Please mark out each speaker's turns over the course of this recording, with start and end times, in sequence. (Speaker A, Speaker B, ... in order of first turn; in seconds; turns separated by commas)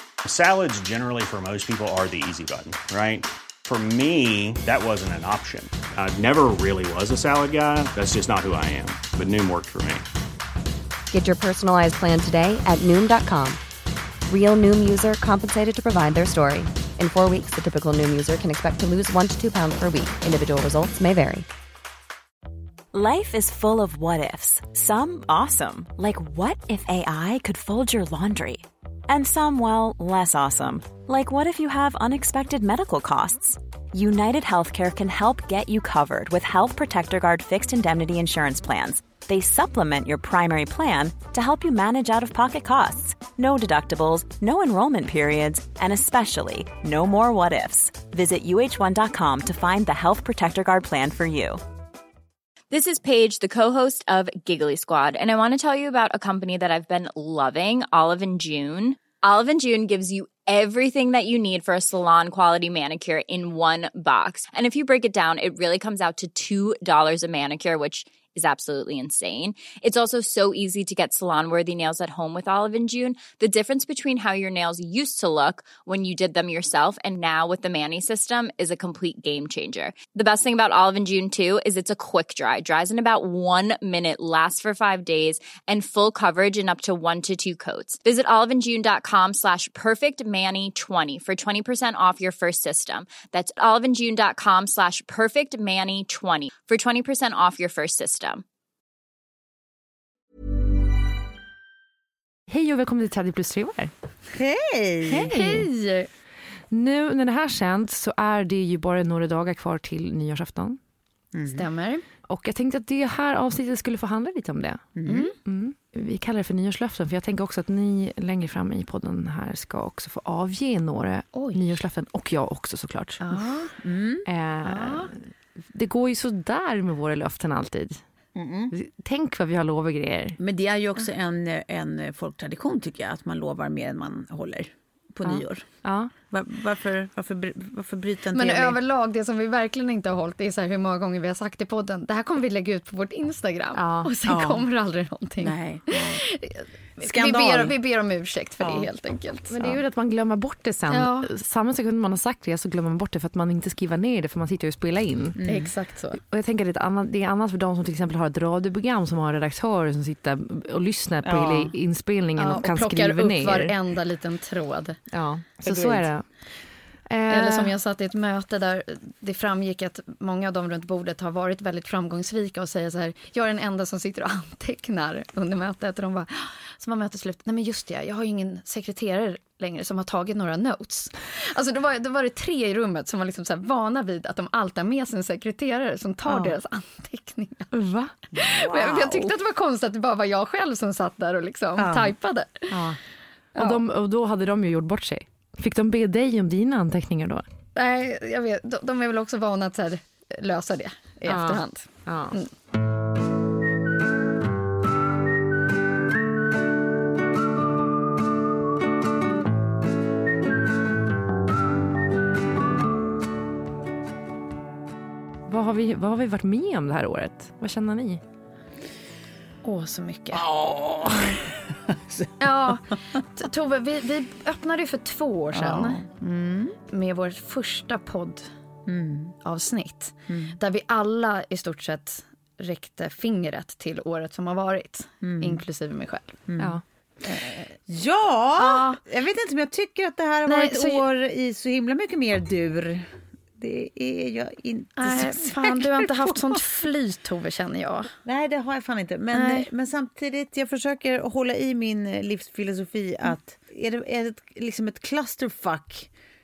Speaker A: 0.2-10.0, Speaker B: 11.1-13.6, Speaker B: 14.3-21.5, Speaker C: 22.9-51.6, Speaker D: 52.7-98.4, Speaker E: 102.5-103.9, Speaker F: 104.3-105.3, Speaker E: 105.1-105.7, Speaker G: 105.1-106.1, Speaker E: 106.7-110.8, Speaker F: 111.3-111.6, Speaker G: 111.5-112.0, Speaker E: 112.2-114.9, Speaker F: 115.0-115.2, Speaker G: 115.0-115.3, Speaker E: 115.4-123.5, Speaker G: 121.3-121.6, Speaker G: 123.2-123.7, Speaker F: 123.8-124.2, Speaker E: 124.2-125.1, Speaker G: 124.6-125.1, Speaker E: 125.7-128.0, Speaker F: 128.3-128.7, Speaker E: 128.7-130.4, Speaker F: 130.4-135.7, Speaker E: 135.2-136.1, Speaker F: 136.3-138.8, Speaker G: 138.3-149.6, Speaker E: 143.7-144.1, Speaker F: 144.2-144.6, Speaker F: 145.4-146.2, Speaker F: 147.0-147.8, Speaker F: 148.6-148.9, Speaker E: 149.5-155.4, Speaker G: 150.9-151.3, Speaker F: 155.4-155.7, Speaker G: 155.4-156.2, Speaker E: 156.2-163.7, Speaker F: 161.2-161.7, Speaker G: 162.3-165.0, Speaker E: 165.1-166.2, Speaker F: 165.6-166.0, Speaker E: 167.1-167.7, Speaker G: 167.3-187.7, Speaker E: 187.7-188.1, Speaker F: 188.3-189.3, Speaker G: 188.4-192.8, Speaker F: 191.8-192.1, Speaker E: 192.7-193.0, Speaker G: 193.5-193.8, Speaker E: 193.6-197.4, Speaker G: 197.7-202.5, Speaker E: 201.2-202.4, Speaker E: 215.5-218.2, Speaker G: 219.6-220.4, Speaker F: 220.3-222.7, Speaker G: 222.4-226.0, Speaker F: 225.5-226.8, Speaker G: 226.9-228.5, Speaker F: 228.9-229.3, Speaker G: 229.4-236.4, Speaker F: 230.3-230.6, Speaker F: 235.2-235.6, Speaker F: 236.5-246.6, Speaker G: 238.6-239.0, Speaker G: 240.4-241.0, Speaker G: 245.0-248.1, Speaker F: 248.2-256.1, Speaker G: 249.3-249.7